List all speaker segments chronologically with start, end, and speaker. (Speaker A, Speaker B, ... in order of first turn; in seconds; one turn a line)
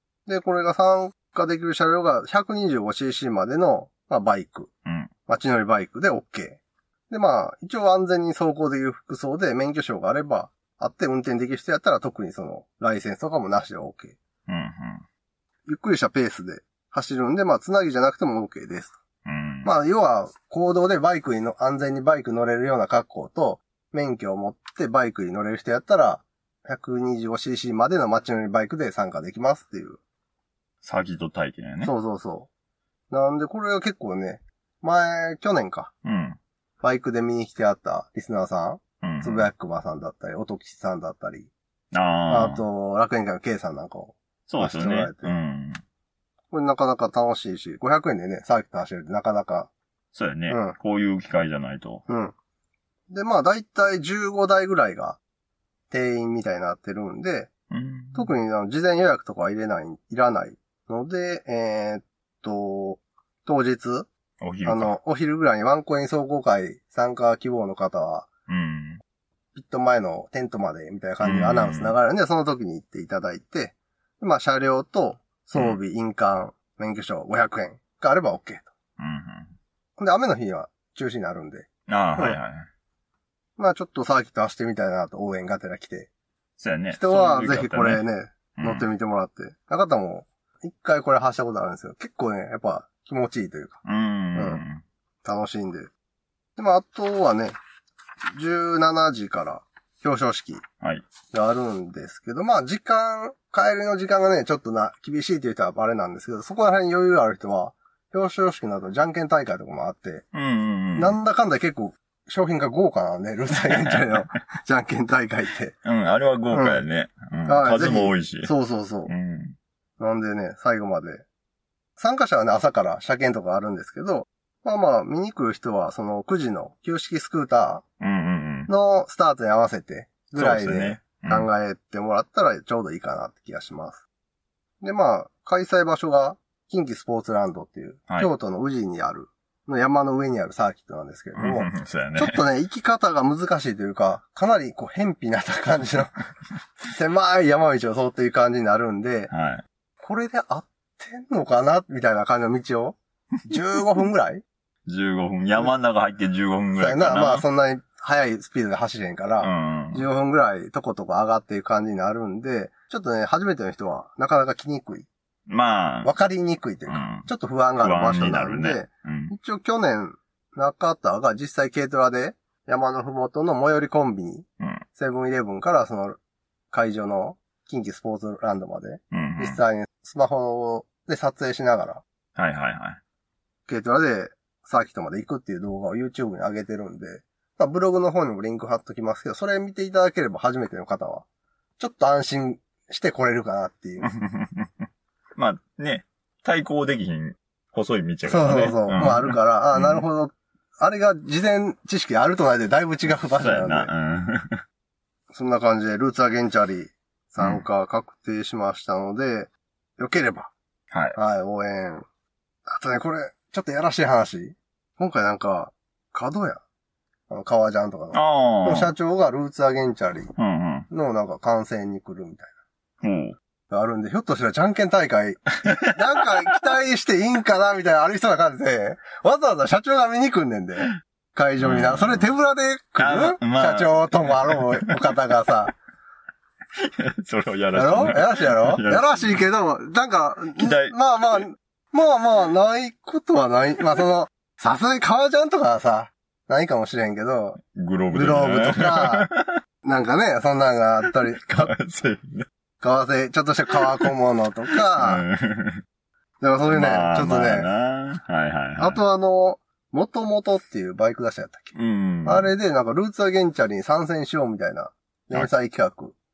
Speaker A: 0.3-4.7
Speaker B: 4.9-5.1
Speaker A: 5.3-14.2
Speaker B: 14.5-15.0
Speaker A: 15.7-19.0
Speaker B: 19.2-19.7
Speaker A: 19.6-30.0
Speaker B: 30.8-31.9
Speaker A: 31.8-32.5
Speaker A: 33.1-35.9
Speaker B: 36.0-36.4
Speaker A: 36.8-41.5
Speaker B: 39.0-39.5
Speaker B: 41.9-42.6
Speaker A: 42.3-45.3
Speaker B: 44.5-45.8
Speaker A: 46.5-49.7
Speaker B: 50.1-52.0
Speaker A: 50.5-50.8
Speaker A: 52.1-52.4
Speaker A: 53.1-55.2
Speaker A: 55.9-57.5
Speaker B: 57.7-58.3
Speaker A: 58.1-64.1
Speaker B: 64.4-65.0
Speaker A: 64.7-68.3
Speaker B: 68.5-69.0
Speaker A: 69.5-78.7
Speaker B: 71.2-72.0
Speaker B: 79.0-79.5
Speaker A: 80.0-82.4
Speaker B: 81.9-82.7
Speaker A: 83.6-86.1
Speaker B: 86.6-88.0
Speaker A: 86.9-93.8
Speaker B: 88.6-88.9
Speaker B: 93.8-94.8
Speaker A: 94.3-94.6
Speaker A: 95.2-95.9
Speaker A: 96.6-97.5
Speaker A: 98.3-100.6
Speaker A: 101.3-110.3
Speaker B: 110.3-111.2
Speaker A: 111.0-115.8
Speaker B: 113.7-114.2
Speaker B: 115.8-118.5
Speaker A: 116.5-116.8
Speaker A: 117.5-119.1
Speaker B: 119.1-119.6
Speaker A: 120.0-121.2
Speaker A: 122.0-127.8
Speaker B: 128.0-128.7
Speaker A: 128.7-134.0
Speaker B: 130.3-131.5
Speaker A: 134.8-146.2
Speaker B: 141.4-142.4
Speaker A: 146.8-149.3
Speaker B: 149.3-149.6
Speaker A: 150.0-154.4
Speaker B: 154.9-157.5
Speaker A: 156.8-165.1
Speaker B: 159.4-160.1
Speaker B: 165.5-166.1
Speaker A: 166.0-176.2
Speaker B: 166.9-169.3
Speaker A: 176.7-182.0
Speaker B: 179.1-179.6
Speaker B: 182.4-183.0
Speaker A: 183.7-191.2
Speaker A: 191.8-194.1
Speaker B: 194.1-194.7
Speaker B: 195.4-200.1
Speaker A: 198.3-203.9
Speaker B: 203.2-204.6
Speaker A: 205.3-210.5
Speaker B: 207.4-207.6
Speaker B: 210.9-211.2
Speaker A: 211.2-212.1
Speaker A: 212.7-216.6
Speaker A: 217.3-220.3
Speaker B: 218.1-218.9
Speaker B: 220.4-220.9
Speaker A: 220.9-222.5
Speaker B: 223.0-223.4
Speaker A: 223.7-235.8
Speaker B: 231.6-232.3
Speaker B: 233.0-235.0
Speaker B: 236.8-239.5
Speaker A: 237.7-247.6
Speaker B: 240.6-240.9
Speaker B: 247.7-249.5
Speaker A: 248.1-249.3
Speaker A: 249.8-251.7
Speaker B: 251.3-252.5
Speaker A: 252.8-255.2
Speaker B: 253.8-254.1
Speaker B: 254.9-255.8
Speaker A: 256.4-257.7
Speaker B: 256.7-259.0
Speaker A: 258.8-266.2
Speaker B: 261.8-262.5